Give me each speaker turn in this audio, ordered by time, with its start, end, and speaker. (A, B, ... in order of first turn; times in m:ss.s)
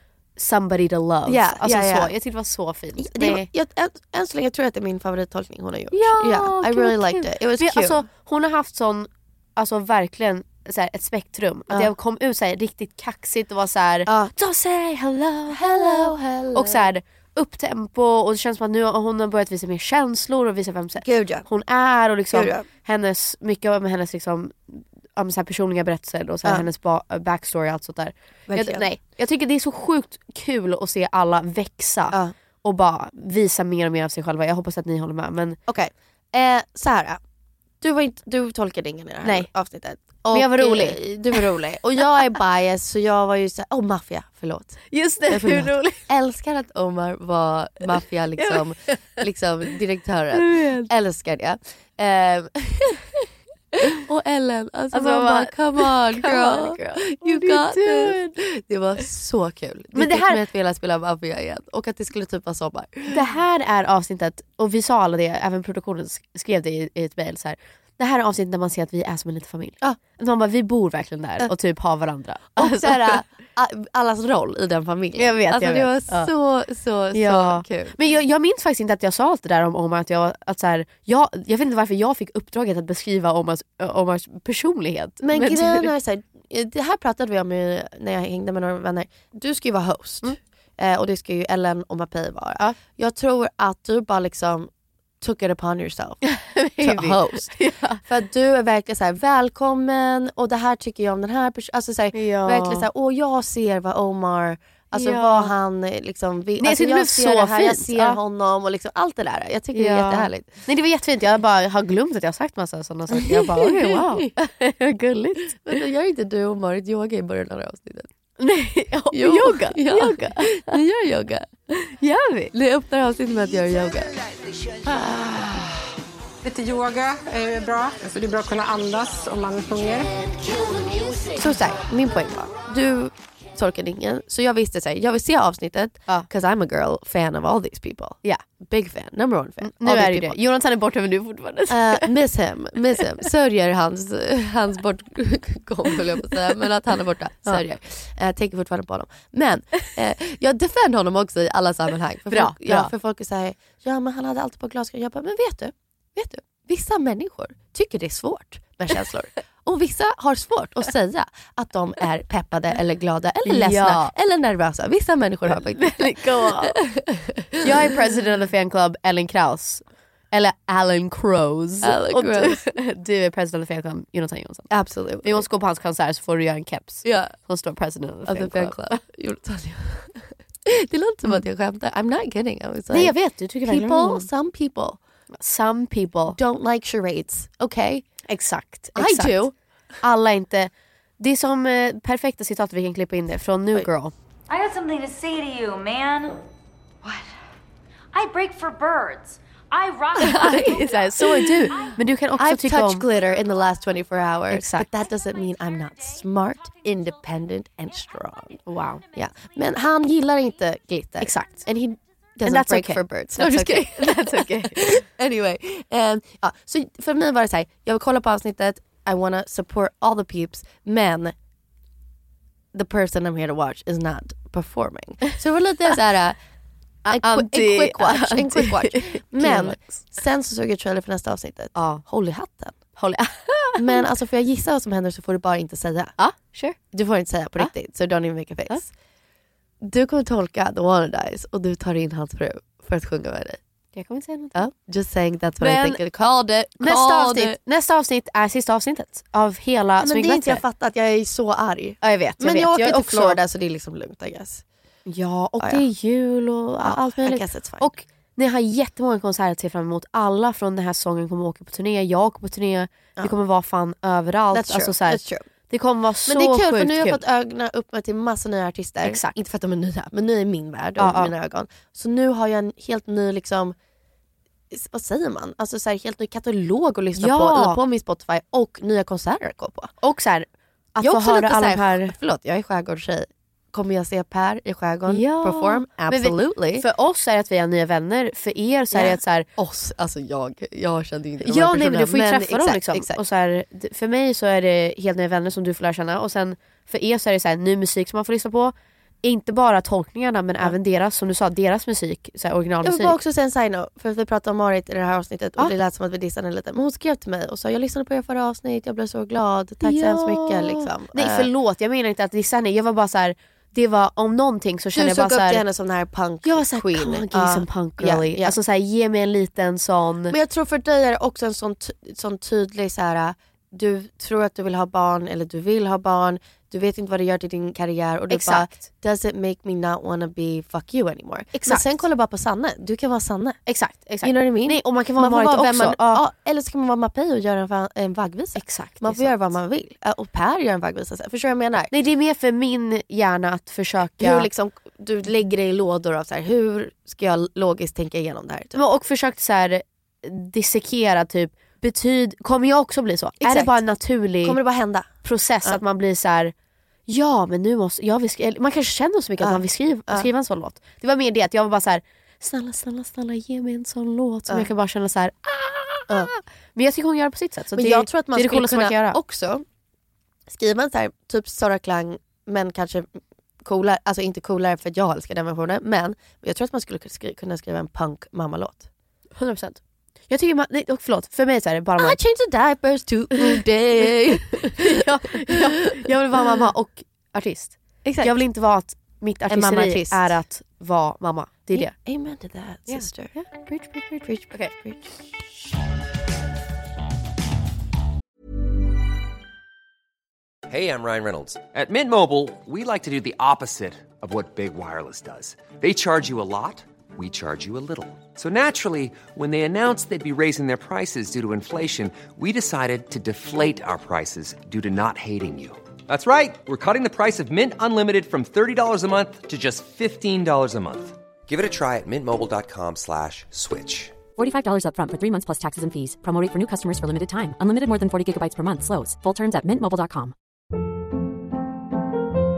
0:00.4-0:03.5 A
0:01.3-0:02.1 B
0:03.0-0:08.0 B
0:05.9-0:35.6 A
0:14.1-0:14.3 B
0:15.5-0:16.9 B
0:21.0-0:21.5 B
0:22.3-0:22.7 B
0:28.5-0:28.9 B
0:35.7-0:37.2 B
0:37.8-0:53.1 B
0:39.2-0:39.5 A
0:40.3-0:41.5 A
0:44.9-0:46.0 A
0:48.4-0:48.6 A
0:50.4-0:50.9 A
0:53.9-1:03.2 B
0:54.9-0:58.3 A
1:00.0-1:00.4 A
1:03.1-1:13.2 A
1:12.6-1:18.0 B
1:15.2-1:16.3 A
1:17.1-1:25.9 A
1:25.2-1:34.7 B
1:35.2-1:36.2 B
1:36.3-1:38.0 A
1:36.8-1:50.5 B
1:42.1-1:42.8 A
1:44.9-1:45.5 A
1:46.6-1:48.2 A
1:49.7-1:55.8 A
1:53.1-1:54.5 B
1:55.5-1:58.1 B
1:58.4-2:00.8 A
1:59.1-2:01.5 B
2:02.0-2:02.5 A
2:02.5-2:04.1 B
2:04.9-2:05.7 B
2:06.4-2:10.3 C
2:11.3-2:20.4 B
2:19.6-2:22.1 A
2:21.7-2:47.9 B
2:32.3-2:32.9 A
2:43.5-2:44.1 A
2:45.8-2:46.8 A
2:47.6-2:54.7 A
2:51.8-2:52.7 B
2:54.7-2:55.4 B
2:55.2-2:59.0 A
2:57.0-2:57.3 B
2:58.3-3:05.0 B
3:02.9-3:04.3 A
3:05.4-3:06.4 A
3:06.3-3:08.1 B
3:08.3-3:09.5 A
3:09.0-3:09.5 B
3:10.0-3:14.1 A
3:14.5-3:16.4 D
3:18.1-3:21.1 D
3:20.2-3:23.0 A
3:20.3-3:21.8 B
3:22.4-3:41.4 B
3:24.5-3:24.9 A
3:28.7-3:29.0 A
3:31.2-3:31.9 A
3:32.4-3:35.0 A
3:42.7-3:46.4 B
3:47.0-3:50.1 A
3:47.1-3:52.8 B
3:51.8-3:52.0 A
3:53.0-3:54.1 A
3:53.8-3:56.2 B
3:56.2-3:56.8 A
3:56.9-3:58.9 B
3:59.8-4:03.6 B
4:04.0-4:04.6 A
4:04.6-4:07.6 B
4:05.6-4:06.0 A
4:06.8-4:10.6 A
4:10.0-4:14.6 B
4:12.0-4:13.4 A
4:15.1-4:27.2 A
4:16.8-4:17.9 B
4:24.5-4:25.4 B
4:26.3-4:33.8 B
4:29.0-4:29.3 A
4:31.0-4:31.3 A
4:34.7-4:39.9 B
4:37.2-4:37.8 A
4:40.0-4:42.1 A
4:41.0-4:46.9 B
4:45.1-4:49.5 A
4:48.9-4:53.2 B
4:51.4-5:03.2 A
5:02.8-5:11.5 B
5:09.8-5:15.6 A
5:15.0-5:18.6 B
5:16.4-5:20.4 A
5:20.3-5:33.6 B
5:28.3-5:28.8 A
5:31.5-5:32.0 A
5:33.7-5:36.2 A
5:34.2-5:41.9 B
5:38.6-5:39.5 A
5:41.9-5:44.5 A
5:44.2-5:48.8 B
5:48.8-5:54.6 A
5:53.4-5:53.8 B
5:54.4-5:55.1 B
5:55.2-5:56.5 A
5:57.1-6:09.2 A
5:59.4-6:00.3 B
6:07.8-6:09.6 B
6:10.5-6:18.9 B
6:19.4-6:19.8 A
6:20.3-6:22.2 A
6:22.0-6:26.6 B
6:23.4-6:31.9 A
6:28.0-6:28.4 B
6:29.5-6:30.4 B
6:31.7-6:33.4 B
6:32.9-6:34.7 A
6:34.3-6:35.1 B
6:40.7-7:04.1 E
7:04.4-7:10.3 F